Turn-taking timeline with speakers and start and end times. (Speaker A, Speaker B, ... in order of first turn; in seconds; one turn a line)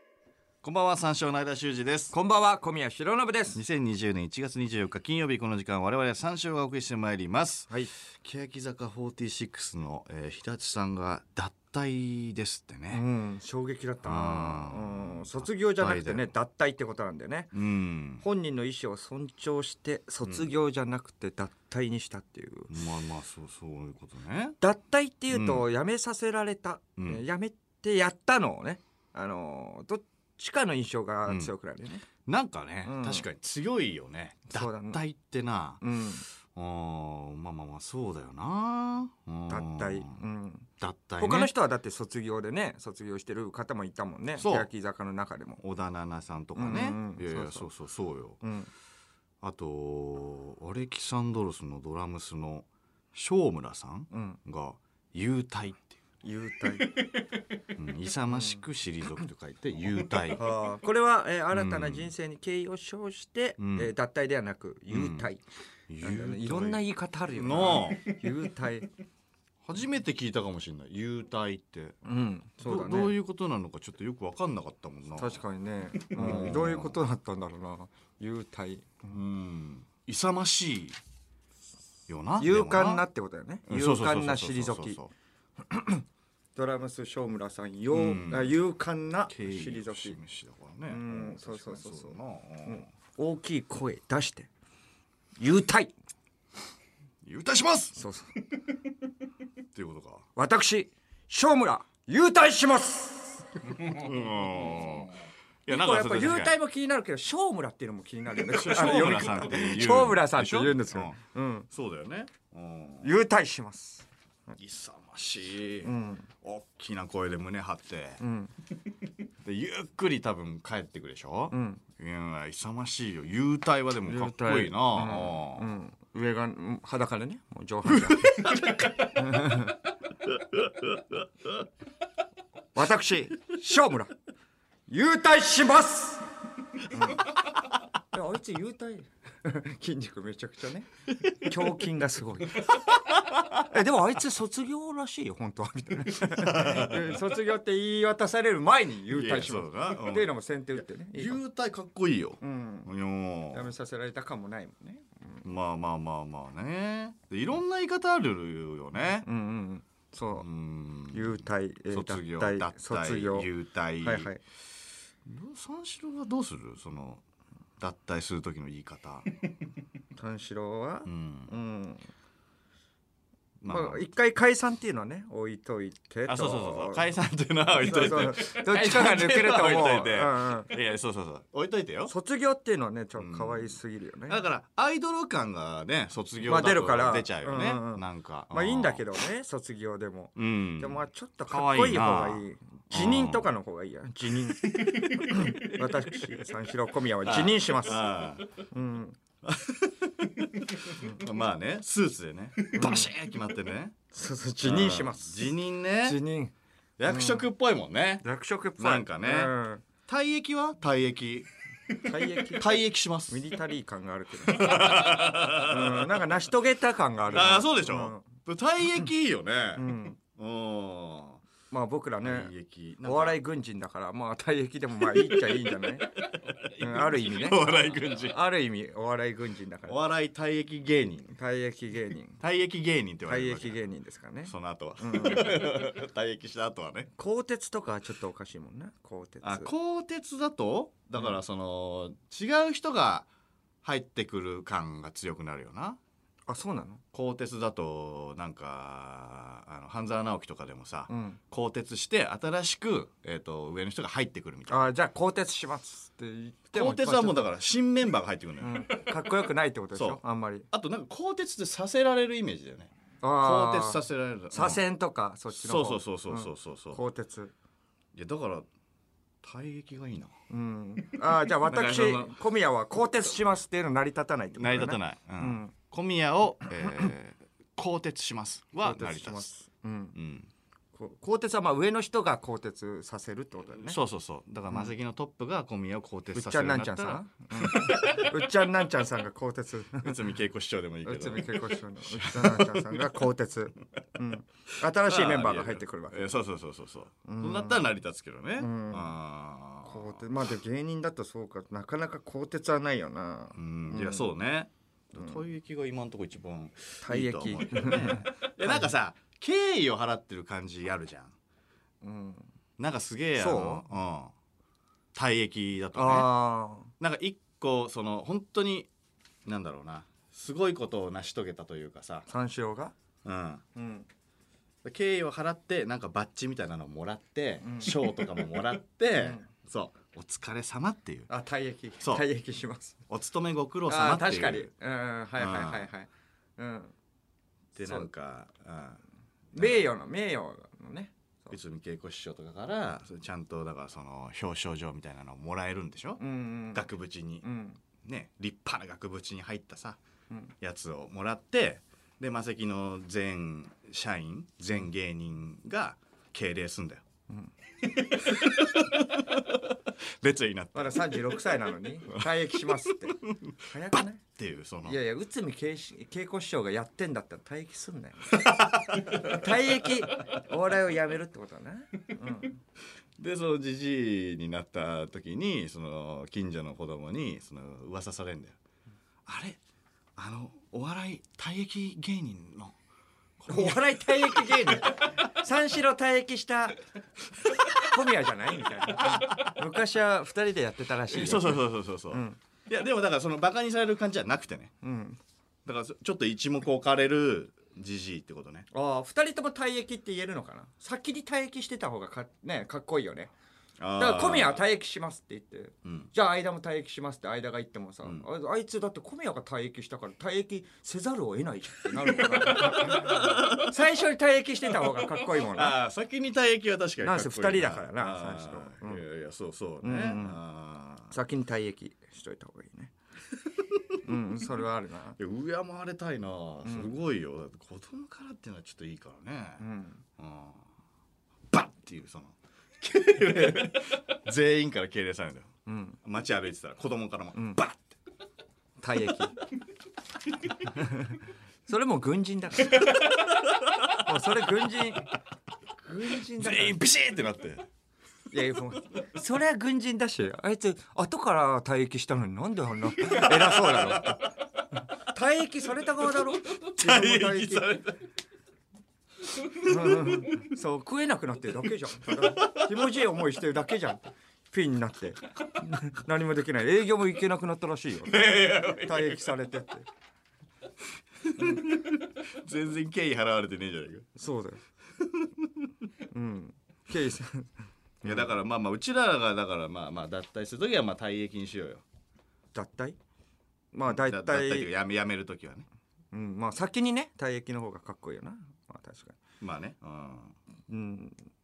Speaker A: 0.6-2.1
Speaker B: 2.1-3.6
Speaker A: 3.5-13.0
Speaker B: 12.9-17.5
Speaker A: 14.0-16.3
Speaker A: 17.5-18.2
Speaker B: 18.2-22.7
Speaker A: 22.7-24.6
Speaker B: 24.6-32.1
Speaker A: 25.3-25.6
Speaker A: 27.0-27.2
Speaker A: 31.3-31.5
Speaker A: 32.2-35.8
Speaker B: 32.9-33.3
Speaker B: 34.5-35.0
Speaker B: 35.8-36.2
Speaker A: 36.5-40.1
Speaker B: 39.5-45.6
Speaker A: 40.8-41.5
Speaker A: 44.4-44.7
Speaker A: 45.6-48.4
Speaker B: 46.5-47.7
Speaker B: 48.4-48.7
Speaker A: 49.4-56.0
Speaker B: 54.1-54.4
Speaker B: 56.2-57.0
Speaker A: 57.7-60.5
Speaker B: 58.3-58.6
Speaker B: 60.3-65.4
Speaker A: 61.5-62.1
Speaker A: 63.6-63.9
Speaker A: 64.9-65.3
Speaker A: 65.9-66.8
Speaker B: 66.0-68.9
Speaker A: 67.3-68.2
Speaker A: 69.6-72.0
Speaker B: 72.0-73.2
Speaker A: 72.6-75.4
Speaker B: 75.2-79.2
Speaker A: 76.0-77.0
Speaker A: 79.1-81.0
Speaker A: 82.1-83.0
Speaker B: 82.4-85.0
Speaker A: 83.7-85.1
Speaker B: 85.7-86.0
Speaker B: 86.6-90.2
Speaker A: 87.9-88.6
Speaker A: 89.3-92.9
Speaker B: 90.9-94.5
Speaker B: 95.4-95.9
Speaker A: 97.2-98.0
Speaker B: 98.0-98.3
Speaker A: 99.7-100.3
Speaker B: 100.4-103.5
Speaker A: 103.7-106.6
Speaker B: 105.7-111.7
Speaker A: 108.3-111.2
Speaker A: 111.7-113.1
Speaker B: 113.0-114.6
Speaker A: 114.6-118.2
Speaker B: 115.8-116.3
Speaker B: 118.2-118.5
Speaker A: 119.4-125.7
Speaker B: 121.5-121.8
Speaker B: 124.1-129.8
Speaker A: 127.9-129.1
Speaker A: 130.2-131.7
Speaker B: 132.8-134.1
Speaker B: 134.9-136.3
Speaker B: 136.8-137.3
Speaker B: 138.1-142.8
Speaker A: 143.1-143.6
Speaker B: 143.5-151.4
Speaker A: 146.2-147.2
Speaker A: 149.1-150.3
Speaker A: 151.1-153.7
Speaker B: 152.4-152.9
Speaker B: 153.5-155.4
Speaker A: 155.4-159.3
Speaker B: 159.2-160.5
Speaker A: 160.4-164.3
Speaker B: 161.1-163.5
Speaker B: 164.0-164.4
Speaker A: 165.2-167.2
Speaker A: 167.8-169.4
Speaker B: 170.1-172.1
Speaker A: 171.1-171.5
Speaker A: 173.6-174.1
Speaker B: 173.7-177.1
Speaker A: 176.3-182.1
Speaker B: 177.7-180.7
Speaker B: 182.1-184.4
Speaker A: 183.2-183.8
Speaker A: 184.3-189.1
Speaker B: 186.4-198.1
Speaker A: 190.4-193.5
Speaker A: 194.5-195.9
Speaker A: 197.2-198.5
Speaker B: 198.7-199.2
Speaker A: 199.4-204.0
Speaker B: 202.7-203.1
Speaker B: 204.1-206.5
Speaker A: 204.6-206.2
Speaker A: 207.0-208.2
Speaker B: 207.1-207.5
Speaker B: 208.2-209.8
Speaker A: 208.8-209.5
Speaker A: 210.1-213.5
Speaker B: 212.0-218.3
Speaker A: 214.4-216.3
Speaker A: 217.3-221.4
Speaker B: 219.8-220.2
Speaker B: 221.7-222.5
Speaker A: 222.2-223.4
Speaker B: 223.0-230.0
Speaker A: 225.1-228.4
Speaker A: 229.9-231.4
Speaker B: 231.4-232.4
Speaker A: 232.4-233.8
Speaker B: 233.3-235.8
Speaker A: 234.5-237.1
Speaker B: 237.2-239.7
Speaker A: 239.4-243.3
Speaker A: 243.8-246.0
Speaker B: 246.5-247.0
Speaker A: 247.1-254.9
Speaker B: 251.1-251.4
Speaker B: 254.7-257.5
Speaker A: 256.7-259.1
Speaker B: 258.6-260.7
Speaker A: 259.9-260.2
Speaker A: 260.7-264.8
Speaker B: 263.2-267.5
Speaker A: 265.5-267.0
Speaker A: 268.1-268.7
Speaker A: 269.4-270.3
Speaker B: 270.5-275.7
Speaker A: 271.6-272.4
Speaker A: 274.6-279.5
Speaker B: 278.8-280.2
Speaker A: 280.1-280.5
Speaker B: 280.9-284.0
Speaker A: 283.9-288.3
Speaker B: 286.3-290.2
Speaker A: 290.0-293.1
Speaker B: 291.0-296.3
Speaker A: 295.0-300.3
Speaker B: 297.2-297.9
Speaker B: 298.6-299.2
Speaker B: 299.9-304.3
Speaker A: 303.6-311.3
Speaker B: 307.0-308.9
Speaker B: 312.0-312.5
Speaker A: 312.8-314.3
Speaker B: 313.4-313.9
Speaker A: 315.1-316.3
Speaker B: 315.9-316.9
Speaker A: 317.0-318.9
Speaker A: 319.4-322.3
Speaker B: 322.3-322.9
Speaker A: 323.2-323.6
Speaker B: 323.8-324.1
Speaker A: 324.8-331.3
Speaker B: 327.6-328.3
Speaker B: 329.2-329.4
Speaker B: 331.3-333.0
Speaker A: 332.0-332.3
Speaker A: 333.1-334.7
Speaker B: 333.9-336.9
Speaker A: 335.4-335.9
Speaker A: 337.8-339.0
Speaker B: 337.8-338.1
Speaker B: 339.5-341.6
Speaker A: 339.6-339.9
Speaker A: 341.5-346.2
Speaker B: 346.2-346.9
Speaker A: 346.7-347.5
Speaker B: 347.4-347.8
Speaker A: 348.0-350.0
Speaker A: 350.6-357.0
Speaker A: 358.0-361.4
Speaker B: 360.7-364.2
Speaker A: 362.1-365.0
Speaker B: 364.8-372.6
Speaker A: 368.3-369.5
Speaker A: 373.2-378.6
Speaker A: 379.3-379.6
Speaker A: 380.2-382.8
Speaker A: 383.4-385.1
Speaker B: 383.5-386.8
Speaker A: 387.5-387.9
Speaker B: 387.7-392.4
Speaker A: 388.8-389.6
Speaker A: 391.1-394.7
Speaker B: 394.8-395.2
Speaker A: 395.6-398.7
Speaker B: 398.7-403.3
Speaker A: 403.8-404.6
Speaker B: 404.0-415.8
Speaker A: 411.9-413.8
Speaker A: 414.9-421.1
Speaker B: 417.0-419.0
Speaker B: 419.8-420.4
Speaker B: 421.1-422.9
Speaker A: 423.7-424.0
Speaker B: 424.0-425.2
Speaker A: 425.2-429.6
Speaker B: 426.6-426.9
Speaker B: 429.6-430.0
Speaker A: 430.2-430.6
Speaker A: 431.5-435.5
Speaker B: 435.7-436.0
Speaker A: 436.0-437.8
Speaker B: 437.4-437.6
Speaker B: 438.8-439.4
Speaker B: 440.6-443.1
Speaker A: 442.6-444.1
Speaker B: 443.9-445.2
Speaker B: 445.8-446.8
Speaker A: 446.2-447.6
Speaker B: 448.3-454.3
Speaker A: 453.0-454.2
Speaker B: 454.9-457.8
Speaker A: 456.5-458.1
Speaker A: 459.4-460.4
Speaker B: 459.6-469.9
Speaker A: 462.1-462.7
Speaker A: 468.1-469.2
Speaker A: 471.2-474.1
Speaker B: 471.4-471.7
Speaker B: 474.2-474.6
Speaker A: 475.0-475.7
Speaker B: 476.1-478.3
Speaker A: 478.0-481.8
Speaker B: 482.5-483.0
Speaker B: 483.7-484.7
Speaker A: 483.9-485.7
Speaker B: 486.1-489.2
Speaker A: 489.4-490.4
Speaker B: 490.7-491.2